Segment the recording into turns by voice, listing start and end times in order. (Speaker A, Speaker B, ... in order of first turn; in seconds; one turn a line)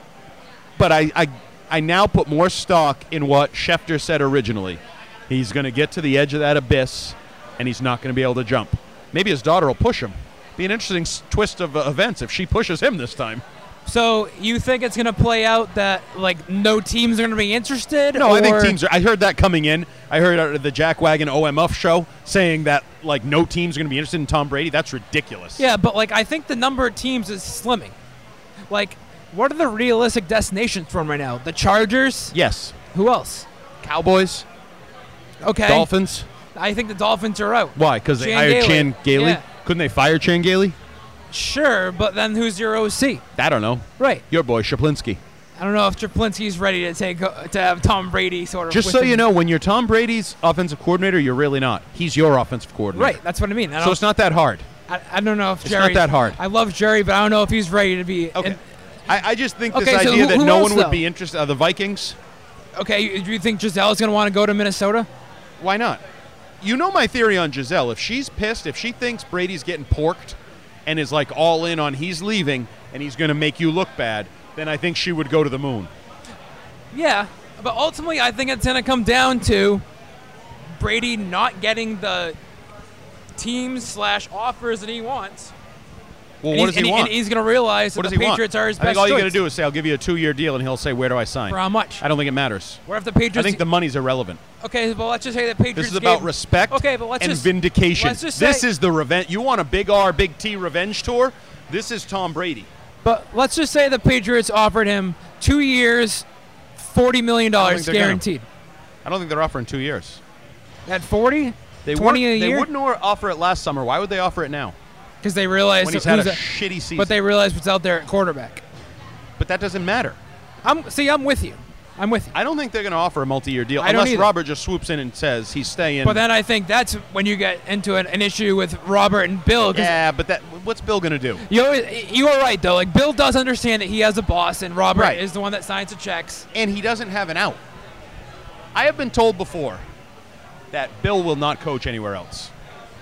Speaker A: 0.8-13.4
Speaker B: 13.9-18.8
Speaker A: 18.1-25.6
Speaker B: 25.6-28.0
Speaker B: 28.7-32.4
Speaker A: 32.3-32.8
Speaker B: 32.9-33.5
Speaker A: 33.8-34.5
Speaker B: 35.4-35.9
Speaker A: 35.6-36.3
Speaker B: 36.5-39.4
Speaker A: 37.8-40.8
Speaker B: 41.3-43.2
Speaker A: 43.4-45.2
Speaker B: 44.0-44.2
Speaker B: 45.6-49.2
Speaker A: 48.7-53.2
Speaker B: 52.9-54.0
Speaker A: 53.8-54.7
Speaker B: 54.9-58.6
Speaker A: 55.6-56.4
Speaker A: 58.4-62.2
Speaker B: 59.7-61.0
Speaker B: 62.8-65.1
Speaker A: 65.6-66.0
Speaker A: 66.6-75.9
Speaker B: 76.9-79.8
Speaker B: 80.8-82.4
Speaker B: 83.4-85.5
Speaker A: 86.4-87.2
Speaker B: 86.5-89.4
Speaker A: 88.0-92.8
Speaker B: 91.5-92.0
Speaker B: 92.9-93.7
Speaker A: 93.3-94.4
Speaker B: 94.6-98.7
Speaker A: 95.8-102.7
Speaker B: 103.0-106.3
Speaker B: 106.8-108.5
Speaker A: 107.6-108.2
Speaker A: 109.0-110.2
Speaker B: 110.9-112.7
Speaker A: 111.9-114.8
Speaker B: 115.2-116.4
Speaker A: 115.8-117.1
Speaker B: 117.0-118.6
Speaker A: 119.4-120.2
Speaker B: 120.6-122.3
Speaker A: 122.3-126.2
Speaker B: 123.8-124.3
Speaker B: 126.0-129.9
Speaker A: 129.7-131.4
Speaker B: 131.5-136.5
Speaker A: 134.9-135.2
Speaker A: 136.5-137.6
Speaker A: 138.8-139.8
Speaker A: 140.7-142.5